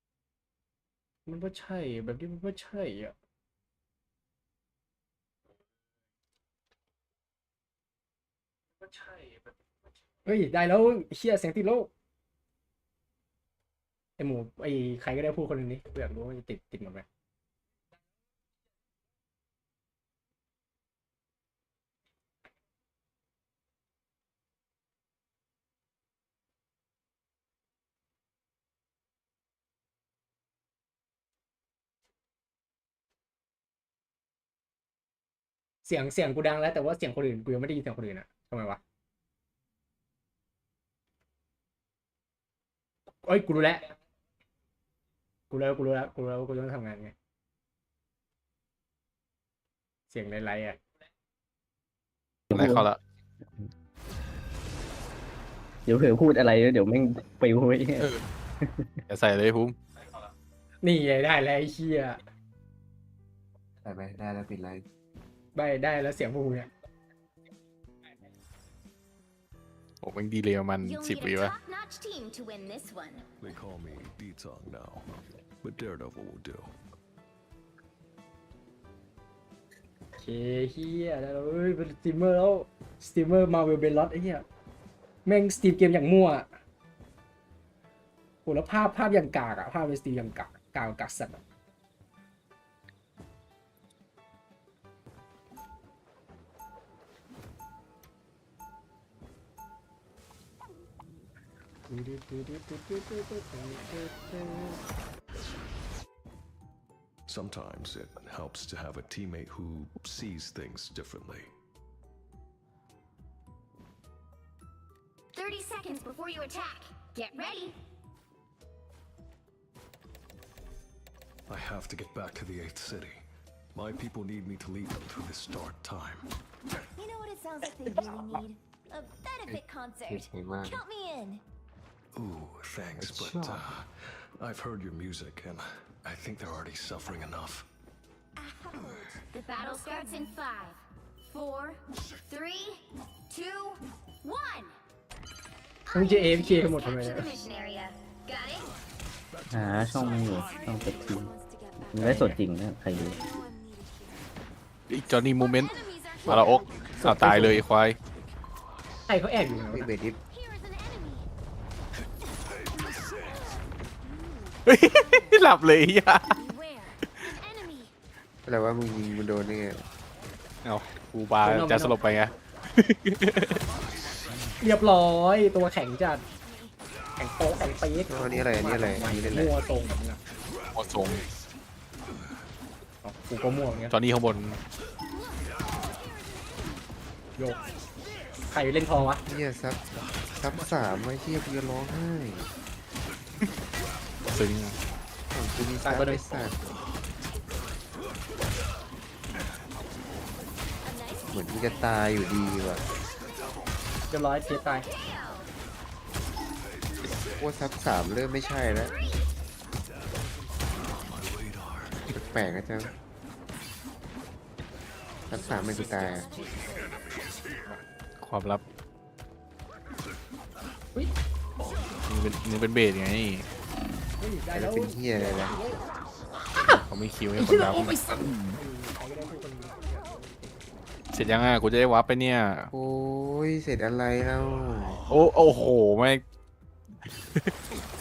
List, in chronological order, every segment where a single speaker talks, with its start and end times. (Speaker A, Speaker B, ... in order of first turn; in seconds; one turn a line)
Speaker A: 1.2-3.1
Speaker A: 10.2-11.9
Speaker A: 14.2-17.1
Speaker A: 35.8-38.8
Speaker A: 43.2-43.9
Speaker A: 45.5-47.1
Speaker A: 50.1-50.8
Speaker B: 52.5-52.9
Speaker C: 52.5-53.0
Speaker B: 55.9-59.0
Speaker C: 59.1-59.8
Speaker A: 60.8-62.2
Speaker D: 63.8-64.8
Speaker A: 65.5-66.7
Speaker C: 70.0-71.5
Speaker E: 70.8-73.2
Speaker F: 73.4-75.1
Speaker F: 75.6-76.7
Speaker A: 80.2-84.4
Speaker A: 85.2-86.5
Speaker A: 88.4-91.4
Speaker A: 101.9-104.8
Speaker F: 107.3-111.5
Speaker E: 115.3-117.8
Speaker F: 121.5-126.3
Speaker E: 127.0-131.4
Speaker D: 129.5-130.8
Speaker F: 132.1-137.7
Speaker D: 133.0-133.7
Speaker E: 138.4-144.8
Speaker E: 145.9-148.7
Speaker A: 145.9-147.3
Speaker F: 149.3-151.3
Speaker B: 149.5-151.3
Speaker E: 150.5-152.1
Speaker B: 151.9-153.2
Speaker A: 152.0-152.4
Speaker E: 153.1-154.2
Speaker C: 154.9-155.7
Speaker E: 155.6-156.9
Speaker C: 156.2-158.0
Speaker A: 157.0-157.6
Speaker A: 159.1-159.9
Speaker D: 159.7-160.2
Speaker E: 160.3-161.3
Speaker E: 164.3-165.4
Speaker C: 164.7-166.4
Speaker E: 166.3-167.9
Speaker D: 168.4-169.8
Speaker C: 170.6-173.6
Speaker A: 171.4-172.0
Speaker F: 173.9-174.6
Speaker A: 174.6-176.2
Speaker E: 176.4-176.7
Speaker A: 177.2-180.2
Speaker D: 178.1-179.5
Speaker C: 180.7-181.3
Speaker A: 183.0-183.9
Speaker C: 183.9-184.6
Speaker E: 185.1-186.4
Speaker A: 188.5-189.2
Speaker D: 189.2-192.5
Speaker C: 194.3-194.8
Speaker D: 195.3-196.6
Speaker E: 201.0-201.4
Speaker D: 201.3-202.8
Speaker A: 204.1-204.9
Speaker E: 204.8-205.5
Speaker D: 207.2-209.0
Speaker E: 208.9-209.2
Speaker F: 210.9-212.2
Speaker D: 212.1-212.9
Speaker D: 215.3-216.3
Speaker E: 215.4-216.6
Speaker C: 218.2-218.6
Speaker F: 221.7-222.0
Speaker C: 222.1-223.5
Speaker A: 224.2-225.8
Speaker D: 224.5-225.6
Speaker A: 226.5-226.8
Speaker C: 226.6-228.0
Speaker A: 227.4-230.5
Speaker C: 231.1-232.7
Speaker D: 232.7-235.0
Speaker C: 235.1-236.2